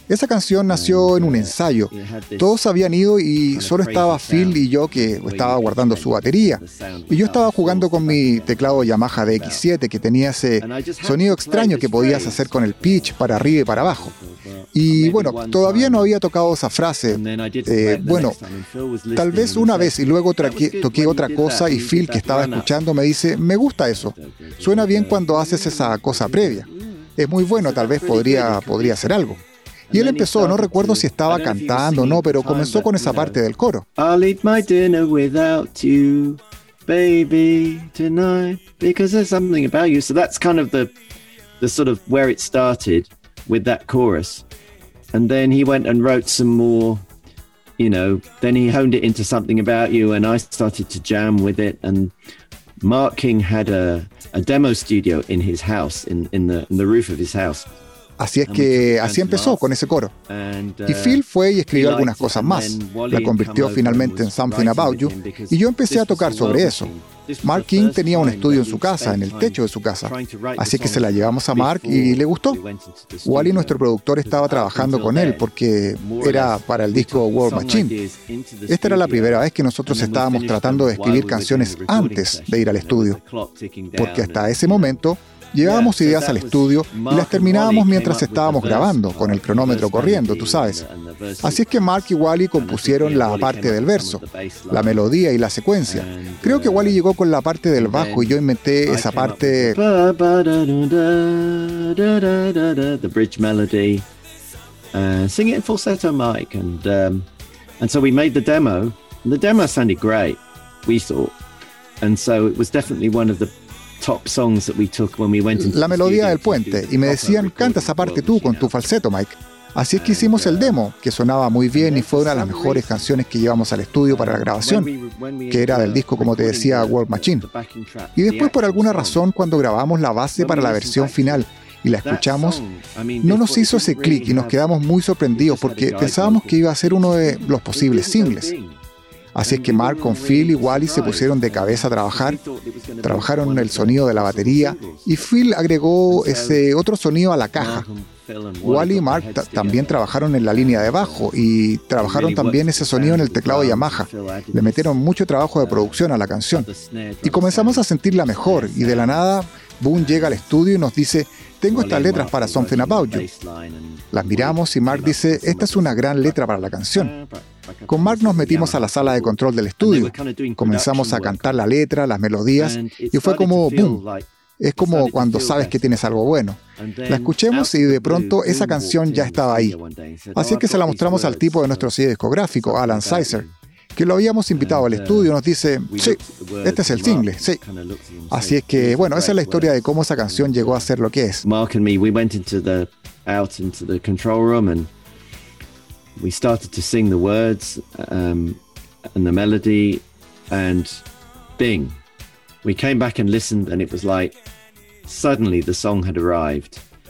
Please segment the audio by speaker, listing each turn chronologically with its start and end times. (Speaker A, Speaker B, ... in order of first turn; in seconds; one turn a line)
Speaker A: 0.1-14.1
Speaker B: 0.7-2.6
Speaker B: 3.5-9.7
Speaker B: 10.6-16.1
Speaker A: 14.7-18.4
Speaker B: 17.1-22.7
Speaker A: 19.1-29.4
Speaker B: 23.9-33.4
Speaker A: 29.9-33.8
Speaker B: 34.0-40.9
Speaker B: 41.6-44.4
Speaker B: 45.1-47.0
Speaker B: 47.8-52.1
Speaker B: 52.8-57.7
Speaker A: 58.2-60.1
Speaker B: 58.4-59.7
Speaker B: 60.3-85.0
Speaker A: 60.9-66.9
Speaker A: 67.4-72.6
Speaker A: 73.2-77.9
Speaker A: 78.7-83.2
Speaker A: 84.0-90.8
Speaker B: 85.6-95.0
Speaker A: 91.4-99.8
Speaker B: 95.8-97.0
Speaker B: 97.7-104.0
Speaker B: 104.9-107.3
Speaker B: 107.8-111.4
Speaker B: 112.0-118.9
Speaker A: 115.5-124.9
Speaker B: 119.9-120.8
Speaker B: 121.7-123.1
Speaker B: 124.0-129.3
Speaker A: 125.5-127.4
Speaker A: 128.2-132.6
Speaker B: 130.3-131.5
Speaker B: 132.0-134.7
Speaker A: 133.2-138.5
Speaker B: 135.3-138.8
Speaker A: 139.3-142.4
Speaker B: 139.4-145.3
Speaker A: 143.0-147.8
Speaker B: 146.1-146.7
Speaker B: 147.5-151.3
Speaker A: 148.6-156.7
Speaker B: 152.0-155.0
Speaker B: 155.6-159.2
Speaker A: 157.2-163.3
Speaker B: 159.9-160.6
Speaker B: 161.7-171.7
Speaker A: 164.1-167.1
Speaker A: 167.9-174.0
Speaker B: 172.5-176.0
Speaker A: 174.6-179.8
Speaker B: 176.8-181.9
Speaker A: 180.3-183.4
Speaker B: 182.5-183.5
Speaker A: 183.9-187.6
Speaker B: 184.5-185.3
Speaker B: 185.9-190.9
Speaker A: 188.3-191.4
Speaker B: 191.4-194.9
Speaker B: 196.2-198.6
Speaker B: 199.1-201.0
Speaker B: 201.6-202.0
Speaker B: 202.6-204.3
Speaker B: 205.1-206.8